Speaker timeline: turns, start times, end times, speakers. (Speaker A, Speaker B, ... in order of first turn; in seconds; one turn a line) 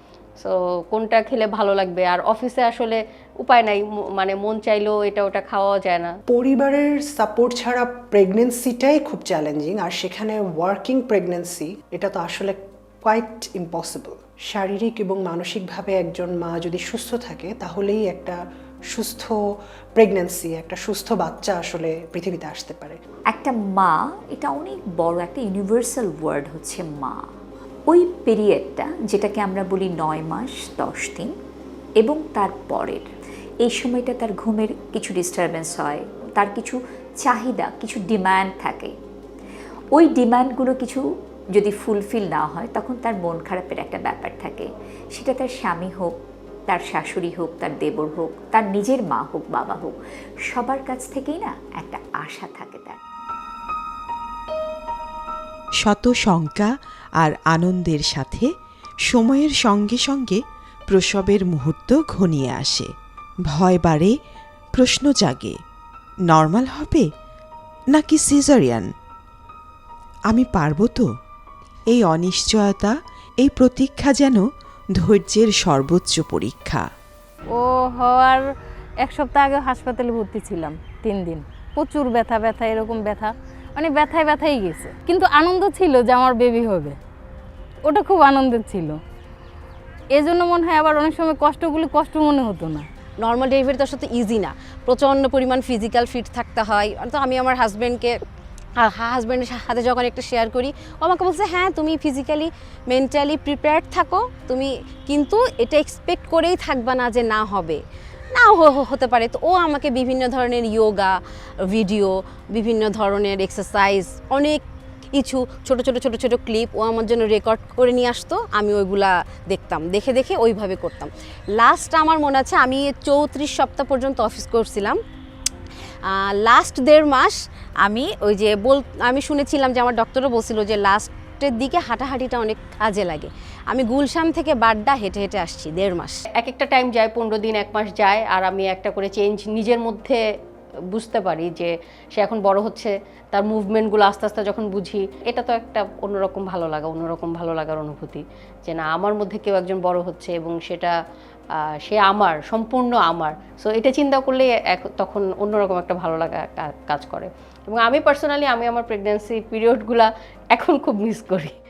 Speaker A: 0.4-6.1
Speaker B: 6.3-18.4
Speaker B: 18.9-19.4
Speaker B: 20.0-23.0
Speaker C: 23.3-27.2
Speaker C: 27.9-31.3
Speaker C: 32.0-33.1
Speaker C: 33.6-38.9
Speaker C: 40.0-41.0
Speaker C: 41.5-46.1
Speaker C: 46.7-50.0
Speaker C: 50.5-53.0
Speaker D: 55.8-58.5
Speaker D: 59.1-62.9
Speaker D: 63.5-64.1
Speaker D: 64.8-65.6
Speaker D: 66.3-67.1
Speaker D: 67.9-68.9
Speaker D: 70.3-71.1
Speaker D: 71.9-74.4
Speaker D: 75.0-76.8
Speaker E: 77.5-78.4
Speaker E: 79.0-87.0
Speaker E: 87.8-89.0
Speaker E: 90.1-92.9
Speaker F: 93.2-98.1
Speaker F: 98.8-107.8
Speaker F: 108.3-111.1
Speaker F: 111.7-114.6
Speaker F: 115.1-125.0
Speaker F: 126.1-136.2
Speaker A: 136.3-140.2
Speaker A: 140.9-151.0
Speaker A: 151.8-161.6